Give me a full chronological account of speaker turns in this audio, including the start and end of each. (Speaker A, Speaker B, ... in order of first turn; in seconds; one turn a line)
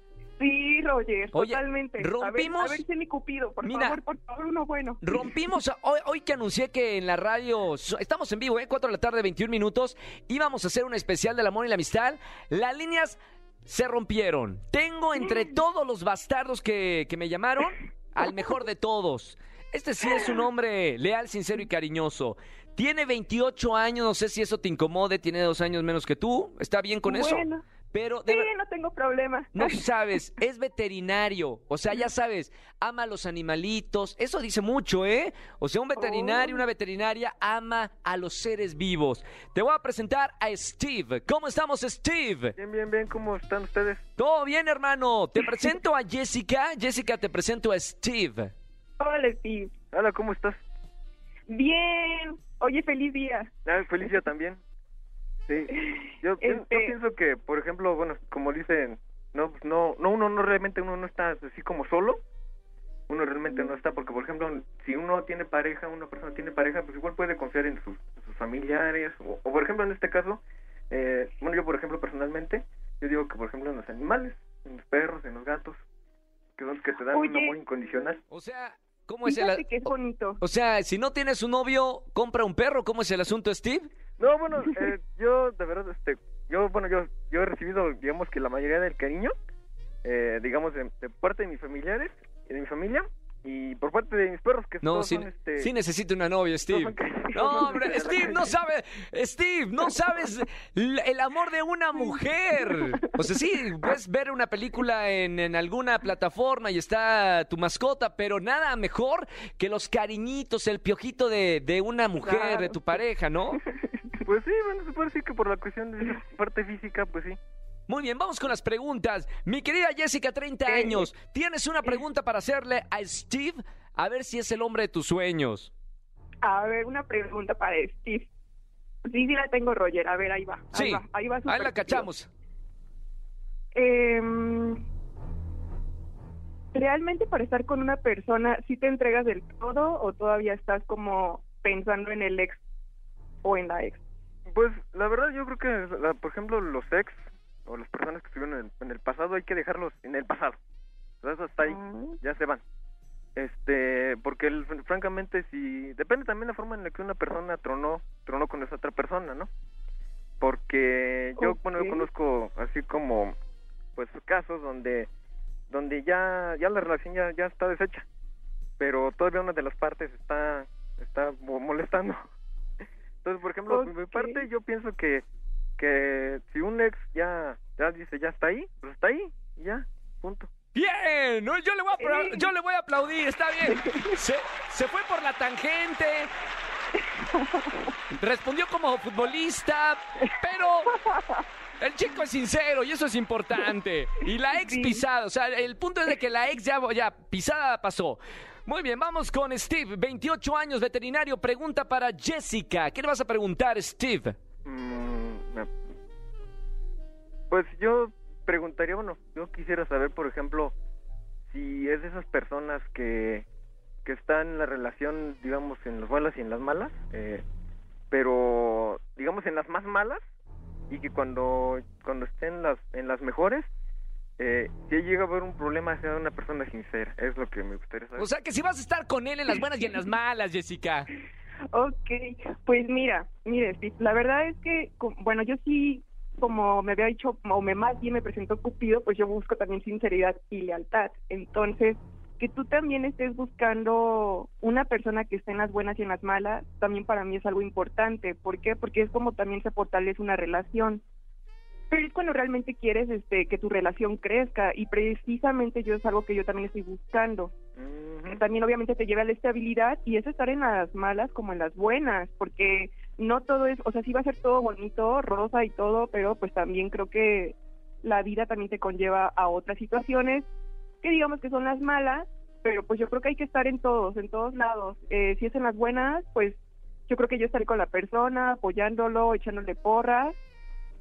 Speaker A: 0.4-5.2
Speaker B: 1.3-2.8
Speaker B: 3.6-4.0
Speaker B: 5.0-28.5
Speaker A: 15.2-15.5
Speaker A: 27.1-27.6
Speaker A: 28.3-29.8
Speaker B: 29.5-42.5
Speaker A: 36.0-36.6
Speaker C: 42.6-44.0
Speaker B: 44.2-48.5
Speaker A: 49.0-49.7
Speaker C: 49.9-50.6
Speaker A: 51.5-53.5
Speaker C: 53.6-54.6
Speaker C: 55.5-62.2
Speaker A: 55.7-57.0
Speaker C: 63.1-75.8
Speaker C: 76.6-78.2
Speaker A: 77.1-77.6
Speaker B: 78.3-83.9
Speaker A: 79.2-80.4
Speaker C: 84.2-89.3
Speaker C: 90.0-95.7
Speaker B: 94.8-113.6
Speaker C: 96.7-98.5
Speaker A: 112.2-112.8
Speaker A: 113.6-114.1
Speaker C: 114.2-117.4
Speaker B: 117.9-125.7
Speaker A: 120.7-121.1
Speaker A: 126.4-128.3
Speaker A: 129.0-132.1
Speaker B: 130.7-132.3
Speaker A: 133.7-134.8
Speaker A: 136.7-142.6
Speaker A: 143.4-144.0
Speaker C: 144.5-150.6
Speaker C: 151.2-152.6
Speaker A: 151.6-152.2
Speaker C: 153.4-159.5
Speaker C: 160.4-163.4
Speaker A: 161.4-162.1
Speaker C: 164.0-165.1
Speaker C: 165.7-168.1
Speaker C: 168.8-172.2
Speaker C: 173.2-175.2
Speaker A: 173.7-174.4
Speaker C: 175.8-180.5
Speaker B: 180.8-186.3
Speaker A: 182.0-182.5
Speaker A: 183.7-184.1
Speaker A: 187.0-187.9
Speaker B: 188.1-190.9
Speaker A: 190.9-191.4
Speaker B: 191.8-204.3
Speaker A: 194.6-195.0
Speaker C: 204.6-205.7
Speaker C: 207.5-210.7
Speaker C: 211.5-213.5
Speaker C: 214.0-217.4
Speaker C: 218.1-220.2
Speaker C: 220.9-223.7
Speaker C: 224.4-228.3
Speaker B: 228.2-231.1
Speaker A: 231.7-251.0
Speaker A: 251.9-257.5
Speaker C: 257.8-258.4
Speaker A: 258.2-270.5
Speaker A: 271.0-280.4